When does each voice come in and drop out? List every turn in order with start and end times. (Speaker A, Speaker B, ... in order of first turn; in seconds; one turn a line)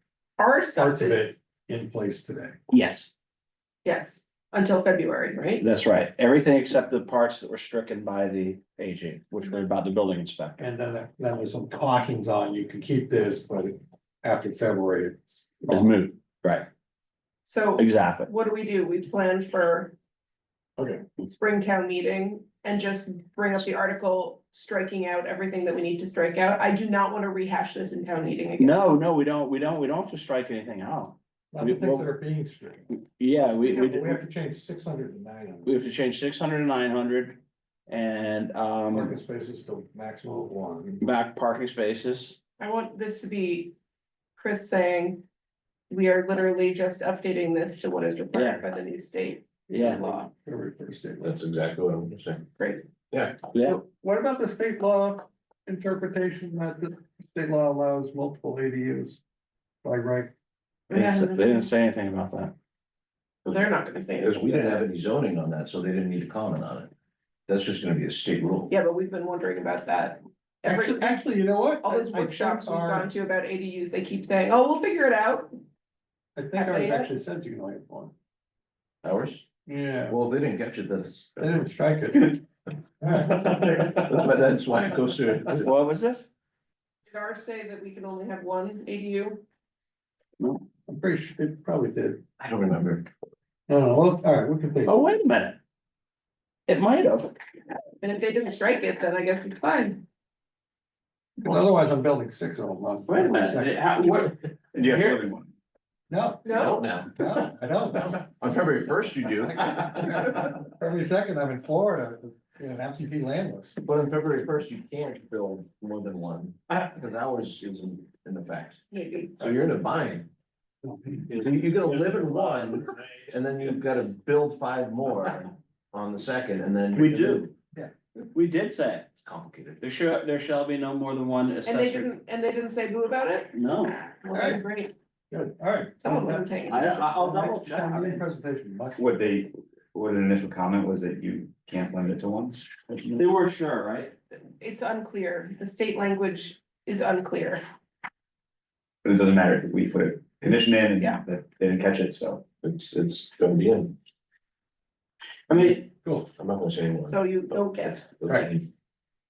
Speaker A: 0.4-1.3
Speaker B: 0.8-2.6
Speaker C: 2.7-3.1
Speaker A: 3.8-5.6
Speaker C: 5.6-10.6
Speaker B: 10.6-15.9
Speaker C: 15.7-16.7
Speaker A: 17.4-19.9
Speaker C: 17.8-18.3
Speaker B: 20.8-21.0
Speaker A: 21.2-28.8
Speaker C: 28.6-32.1
Speaker B: 31.5-32.9
Speaker C: 33.1-34.2
Speaker B: 33.7-35.8
Speaker C: 35.6-39.1
Speaker B: 38.9-41.0
Speaker C: 41.0-42.4
Speaker A: 42.6-43.7
Speaker A: 44.4-45.2
Speaker A: 45.9-50.3
Speaker C: 48.3-48.6
Speaker C: 49.7-50.0
Speaker B: 50.1-51.4
Speaker D: 51.2-52.4
Speaker A: 52.6-52.8
Speaker D: 53.1-53.4
Speaker C: 53.5-53.8
Speaker B: 53.6-59.2
Speaker B: 59.8-60.3
Speaker C: 60.9-62.5
Speaker A: 60.9-61.7
Speaker A: 63.4-64.8
Speaker D: 64.2-66.9
Speaker D: 67.5-68.7
Speaker A: 68.7-71.2
Speaker B: 70.6-73.1
Speaker A: 71.8-75.5
Speaker B: 76.3-78.1
Speaker A: 76.5-77.1
Speaker D: 79.0-79.5
Speaker B: 79.7-80.2
Speaker D: 80.1-81.6
Speaker B: 81.4-82.4
Speaker B: 83.0-84.2
Speaker D: 83.3-85.7
Speaker C: 85.5-86.3
Speaker A: 87.1-89.4
Speaker B: 90.9-92.2
Speaker D: 92.4-93.1
Speaker B: 93.7-95.0
Speaker C: 94.8-95.6
Speaker C: 96.7-97.3
Speaker A: 98.0-100.0
Speaker B: 101.4-104.3
Speaker C: 103.1-105.2
Speaker E: 104.7-105.5
Speaker B: 106.1-108.3
Speaker A: 106.4-106.8
Speaker D: 106.5-107.4
Speaker D: 108.0-110.3
Speaker B: 109.4-113.8
Speaker D: 113.8-118.8
Speaker A: 118.9-119.5
Speaker D: 119.4-120.3
Speaker B: 120.8-121.3
Speaker C: 121.3-121.5
Speaker D: 121.3-127.5
Speaker C: 122.1-122.5
Speaker C: 126.9-127.4
Speaker B: 127.7-128.3
Speaker C: 128.3-129.1
Speaker D: 129.2-129.8
Speaker C: 129.8-132.1
Speaker A: 131.7-134.9
Speaker C: 133.5-134.0
Speaker B: 134.3-134.6
Speaker B: 135.3-136.5
Speaker A: 136.0-137.1
Speaker C: 136.7-138.2
Speaker B: 137.1-139.2
Speaker E: 138.9-143.2
Speaker C: 143.2-144.1
Speaker A: 144.3-147.6
Speaker E: 149.0-152.5
Speaker D: 152.6-154.0
Speaker C: 155.5-155.9
Speaker B: 155.6-156.3
Speaker D: 156.3-158.7
Speaker A: 157.1-158.1